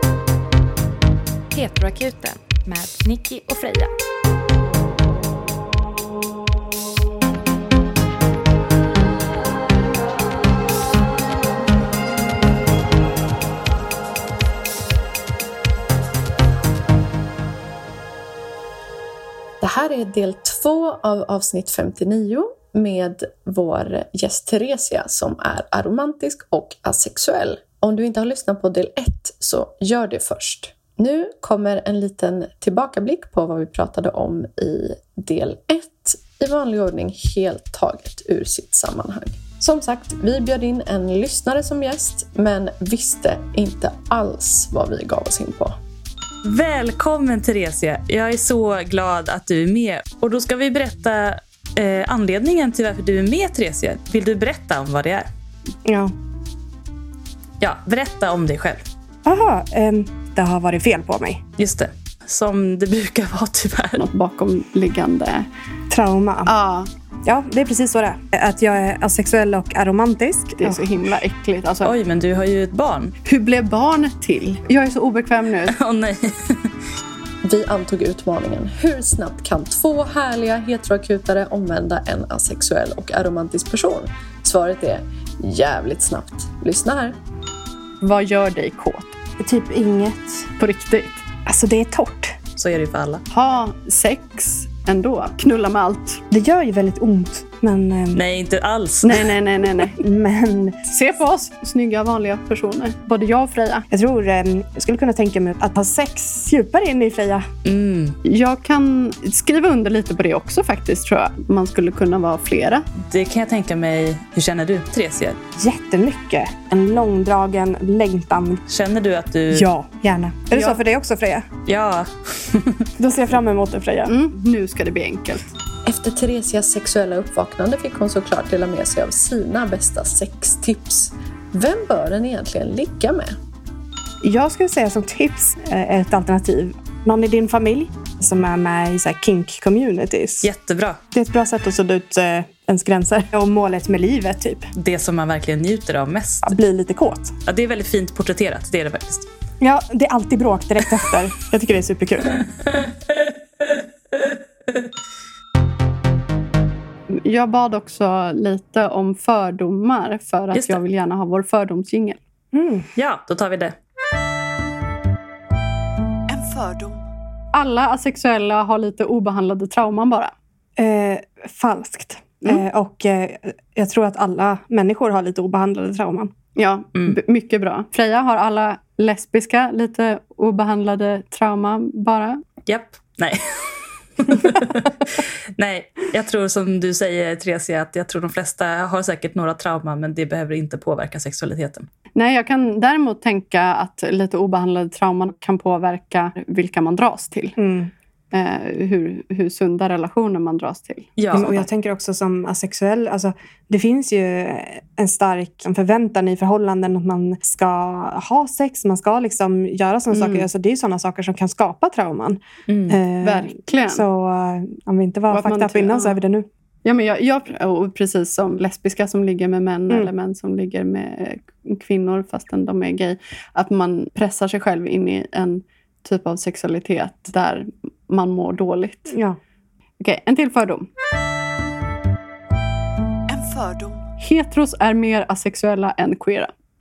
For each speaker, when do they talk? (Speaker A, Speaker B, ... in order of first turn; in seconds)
Speaker A: 1.5-3.9
Speaker B: 19.6-45.8, 77.4-87.2, 125.8-133.4
Speaker C: 46.4-55.3, 57.6-58.9, 61.6-64.0, 71.8-73.1, 75.7-76.7, 92.6-93.2, 98.1-99.3, 107.6-108.2, 113.0-115.4, 118.7-119.7, 121.7-122.8, 140.4-141.0, 144.8-146.6, 147.4-149.3, 152.8-153.2, 160.5-160.8, 162.9-163.7, 182.7-191.9, 201.2-201.5, 212.7-213.0
Speaker D: 55.8-56.1, 59.2-61.4, 65.9-66.5, 67.2-71.1, 89.4-90.5, 91.5-92.4, 96.3-98.2, 100.0-100.8, 103.9-107.5, 115.6-118.6, 119.5-121.5, 123.0-124.1, 134.2-140.5, 141.1-144.7, 146.4-147.3, 149.6-152.4, 162.5-162.9, 170.8-176.3, 197.6-197.9, 201.3-216.5, 229.1-229.4
Speaker E: 64.0-65.5, 66.5-66.9, 70.6-71.9, 73.2-75.8, 88.0-89.1, 90.6-91.2, 93.3-96.2, 99.0-100.0, 100.8-103.8, 108.2-112.9, 120.5-120.8, 124.1-125.5, 157.1-162.2, 166.3-166.9, 167.5-170.3, 176.5-182.4, 192.2-197.6, 198.3-201.7, 210.1-210.4, 213.2-214.1, 215.3-216.2, 216.8-229.1, 230.0-230.9, 233.3-236.5